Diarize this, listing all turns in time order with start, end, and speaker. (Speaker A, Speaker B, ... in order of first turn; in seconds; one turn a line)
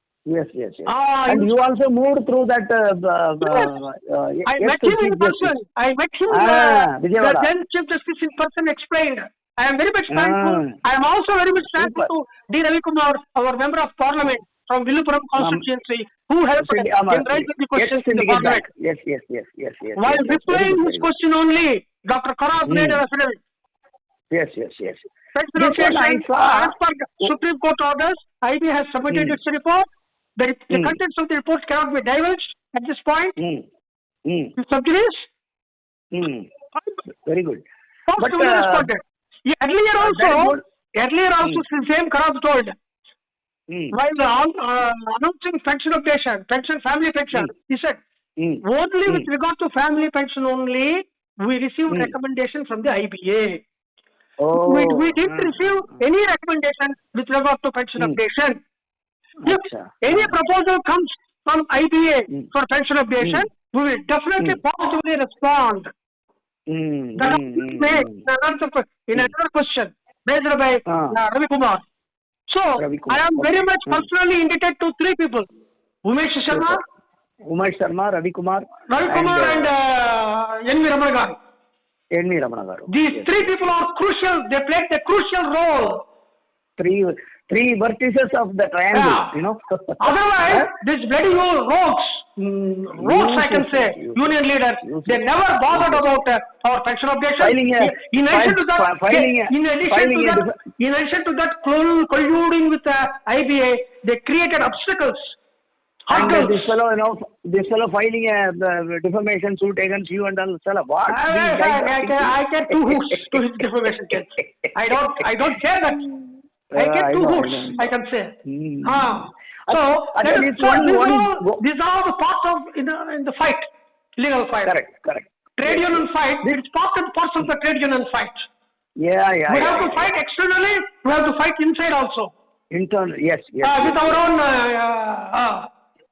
Speaker A: 0.3-5.5
Speaker B: 0.9-1.5
Speaker B: 3.4-3.7
Speaker B: 4.5-18.7
Speaker A: 6.3-7.5
Speaker A: 10.1-10.8
Speaker A: 11.7-12.1
Speaker A: 15.4-15.7
Speaker A: 16.6-21.1
Speaker B: 20.0-23.4
Speaker A: 22.7-23.0
Speaker A: 24.3-27.3
Speaker B: 25.3-29.9
Speaker A: 29.1-29.4
Speaker B: 30.4-33.4
Speaker A: 30.7-31.0
Speaker A: 33.4-33.6
Speaker A: 34.3-34.5
Speaker B: 34.6-35.3
Speaker A: 36.1-36.5
Speaker B: 36.8-37.0
Speaker A: 37.2-37.6
Speaker B: 38.1-42.8
Speaker A: 38.2-38.9
Speaker A: 40.0-40.6
Speaker B: 43.9-48.0
Speaker A: 48.4-49.3
Speaker B: 48.6-53.6
Speaker A: 51.9-52.1
Speaker A: 54.4-55.9
Speaker B: 54.6-58.6
Speaker A: 59.4-60.4
Speaker B: 59.5-65.9
Speaker A: 63.2-63.5
Speaker A: 66.7-68.2
Speaker B: 67.2-71.8
Speaker A: 70.9-71.2
Speaker B: 72.5-75.5
Speaker A: 72.8-74.1
Speaker B: 76.0-76.8
Speaker A: 76.5-76.8
Speaker A: 77.5-79.7
Speaker B: 78.9-81.4
Speaker A: 82.2-83.6
Speaker B: 82.9-86.0
Speaker A: 86.8-90.7
Speaker B: 88.9-89.3
Speaker B: 90.0-105.4
Speaker A: 93.0-96.2
Speaker A: 97.4-100.5
Speaker B: 106.1-106.7
Speaker A: 106.1-113.4
Speaker B: 111.1-116.1
Speaker A: 116.7-117.9
Speaker B: 116.7-123.7
Speaker A: 118.5-121.6
Speaker B: 124.2-124.8
Speaker A: 124.6-126.6
Speaker B: 125.6-128.4
Speaker A: 129.0-130.1
Speaker B: 129.5-132.3
Speaker A: 132.7-134.2
Speaker B: 133.6-135.7